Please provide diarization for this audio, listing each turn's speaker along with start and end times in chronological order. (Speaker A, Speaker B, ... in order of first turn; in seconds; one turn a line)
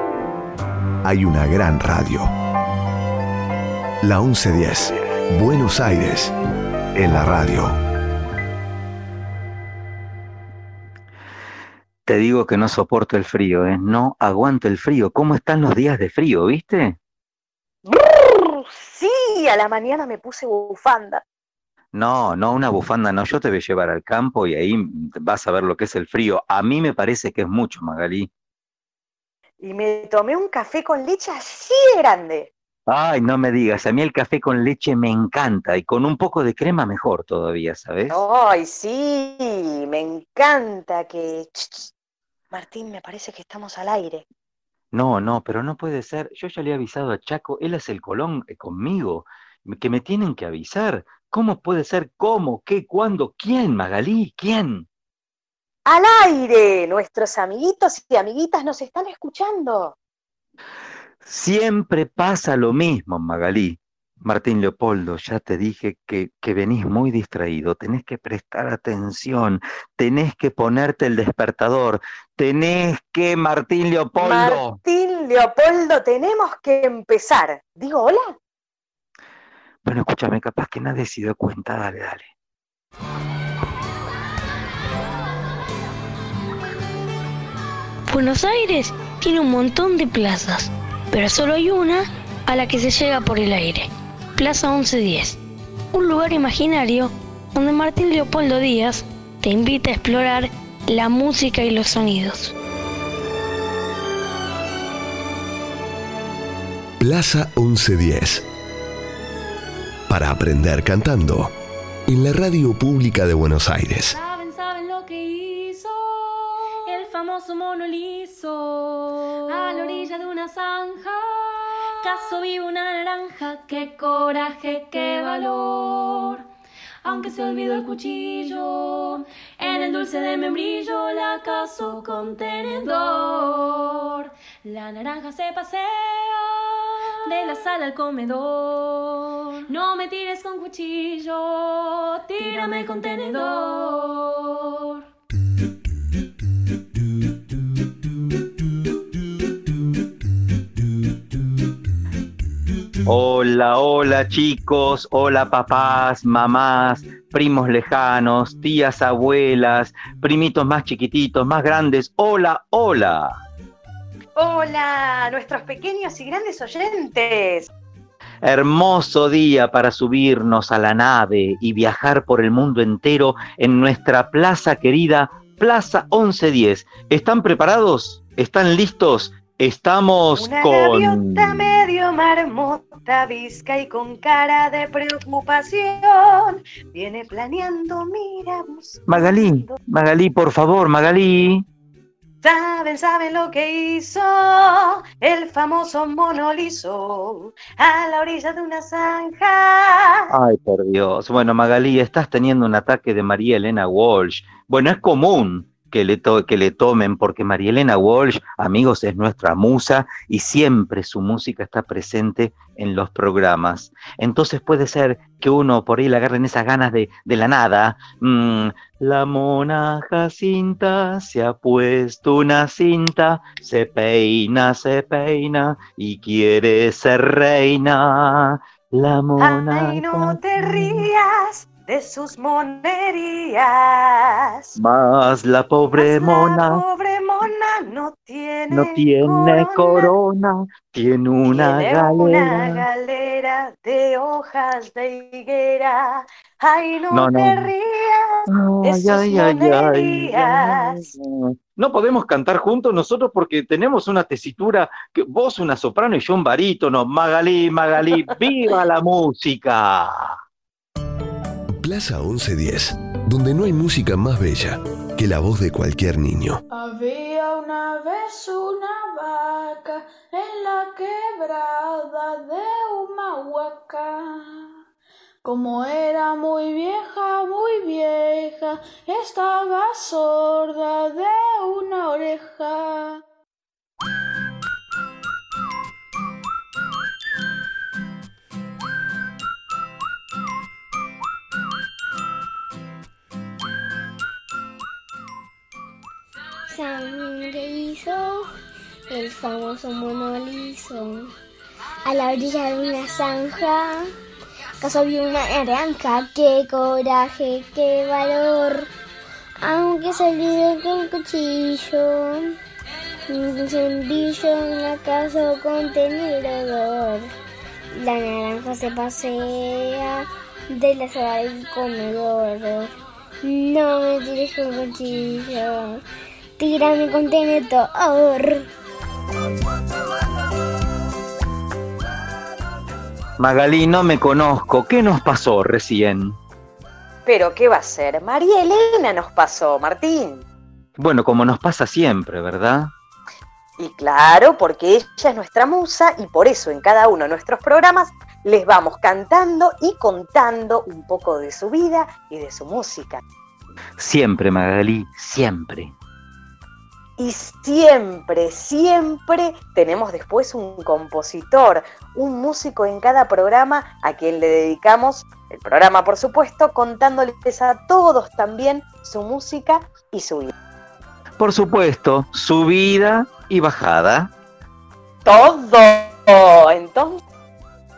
Speaker A: 1.0-2.3
Speaker A: 4.0-6.3
Speaker A: 6.9-7.8
Speaker B: 12.1-17.0
Speaker C: 17.9-21.2
Speaker B: 21.9-28.3
Speaker C: 29.6-32.5
Speaker B: 32.9-38.2
Speaker C: 38.1-41.9
Speaker C: 42.5-44.2
Speaker B: 44.9-54.9
Speaker C: 55.9-60.0
Speaker B: 61.2-74.8
Speaker C: 74.2-78.4
Speaker B: 79.8-82.3
Speaker D: 88.1-95.4
Speaker D: 95.9-102.5
Speaker A: 107.0-108.4
Speaker A: 110.1-111.5
Speaker A: 112.1-114.2
Speaker E: 114.1-126.5
Speaker E: 127.0-145.0
Speaker B: 153.1-163.4
Speaker C: 164.4-167.7
Speaker B: 168.4-181.7
Speaker C: 180.4-189.8
Speaker B: 189.1-191.6
Speaker C: 192.4-200.3
Speaker B: 200.3-230.4
Speaker C: 229.4-234.7
Speaker B: 234.8-236.8
Speaker C: 236.0-240.1
Speaker B: 238.7-242.8
Speaker C: 241.5-251.1
Speaker B: 247.1-247.7
Speaker B: 248.5-260.4
Speaker A: 261.8-266.6
Speaker F: 266.7-274.7
Speaker F: 275.4-283.2
Speaker G: 296.7-298.5
Speaker G: 299.1-301.3
Speaker G: 302.1-304.1
Speaker G: 304.8-308.9
Speaker G: 309.6-312.6
Speaker G: 313.3-317.3
Speaker G: 317.9-322.9
Speaker G: 323.4-326.0
Speaker G: 326.6-328.7
Speaker B: 333.4-336.4
Speaker C: 337.2-340.4
Speaker B: 341.0-342.9
Speaker C: 343.8-353.2
Speaker B: 354.0-355.9
Speaker C: 357.2-370.5
Speaker B: 371.4-374.3
Speaker C: 375.2-377.2